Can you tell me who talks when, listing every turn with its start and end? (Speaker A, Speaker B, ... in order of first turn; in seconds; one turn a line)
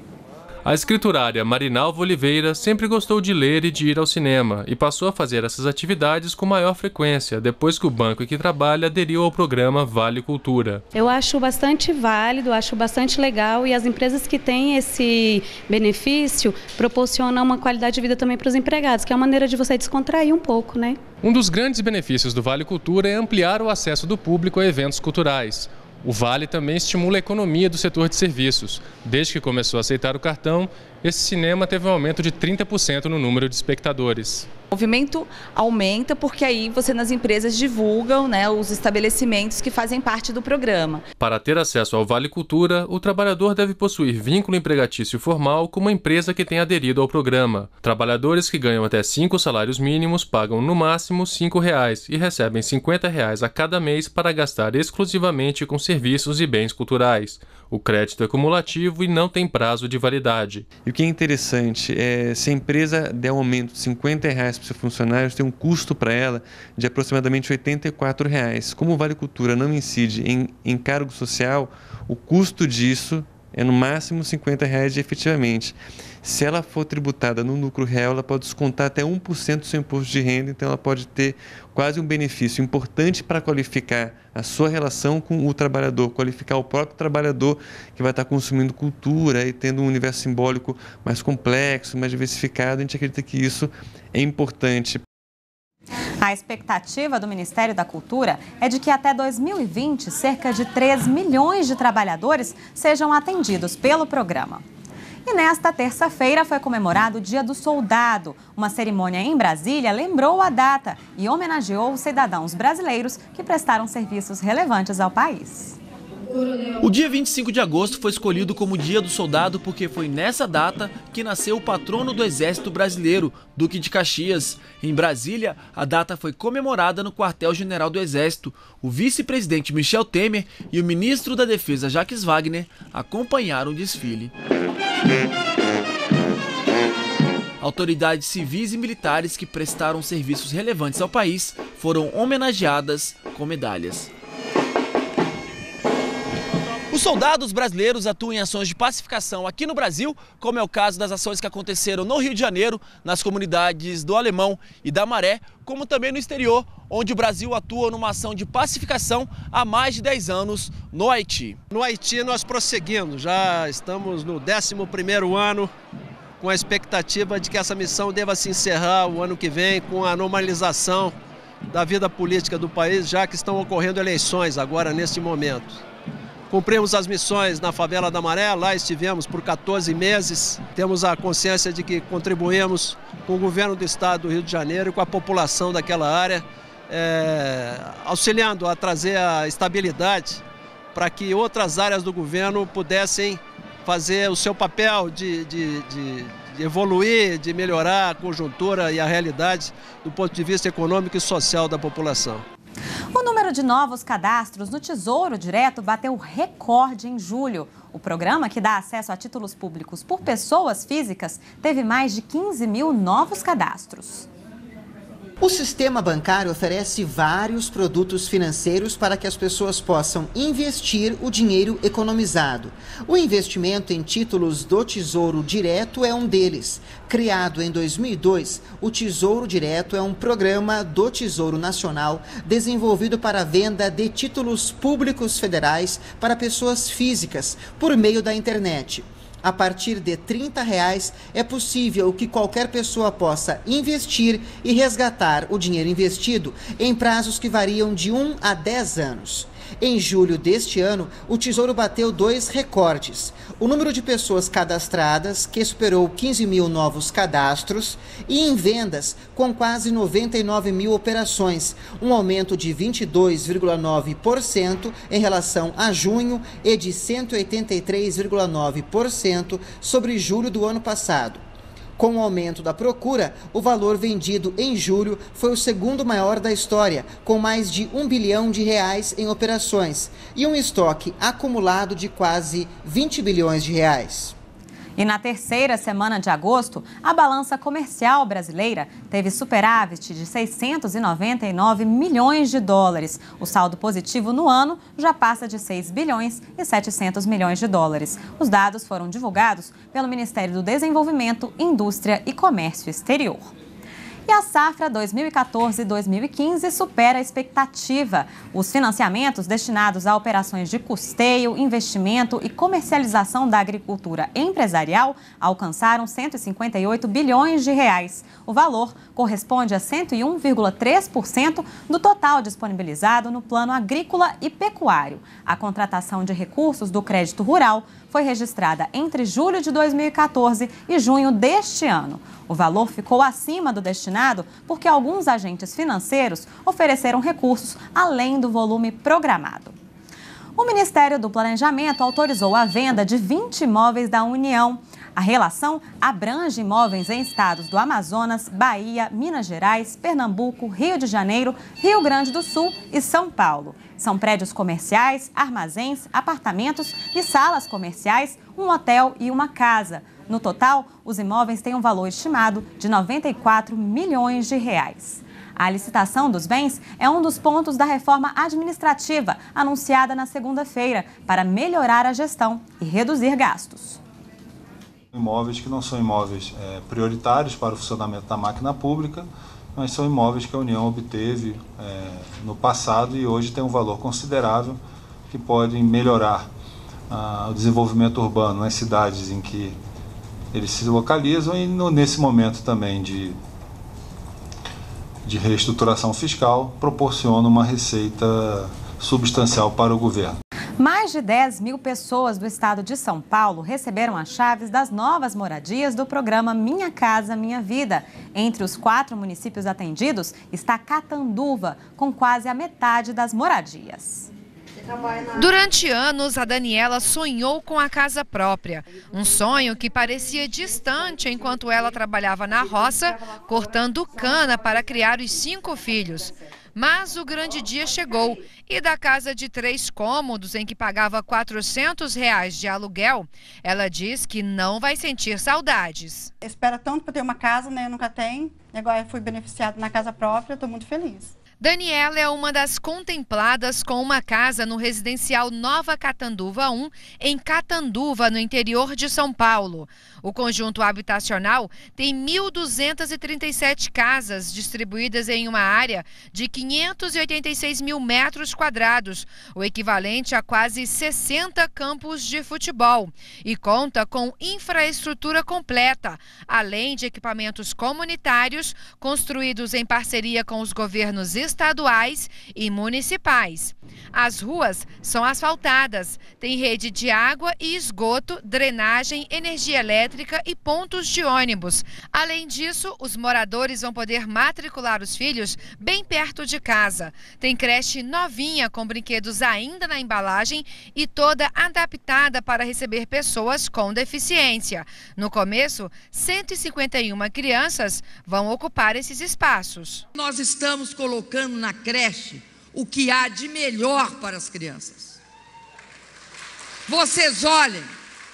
Speaker A: 0.6-10.8
Speaker B: 10.9-21.0
Speaker A: 21.2-34.5
Speaker C: 34.7-41.0
Speaker A: 41.2-60.7
Speaker D: 60.8-95.0
Speaker E: 96.2-104.6
Speaker E: 105.2-115.8
Speaker F: 116.3-116.7
Speaker G: 116.8-134.3
Speaker G: 137.6-144.1
Speaker G: 146.9-161.6
Speaker H: 161.7-165.7
Speaker H: 166.4-171.2
Speaker H: 171.7-175.8
Speaker H: 176.5-190.4
Speaker H: 190.9-202.4
Speaker E: 203.1-214.3
Speaker I: 215.4-271.4
Speaker I: 272.0-284.4
Speaker E: 284.9-303.5
Speaker E: 304.2-339.7
Speaker E: 340.6-374.0
Speaker J: 375.1-386.5
Speaker J: 387.1-389.8
Speaker J: 390.5-393.4
Speaker J: 395.2-400.4
Speaker E: 400.8-414.3
Speaker K: 415.4-436.3
Speaker F: 436.4-441.3
Speaker K: 441.6-500.0
Speaker L: 500.1-505.2
Speaker L: 506.9-507.9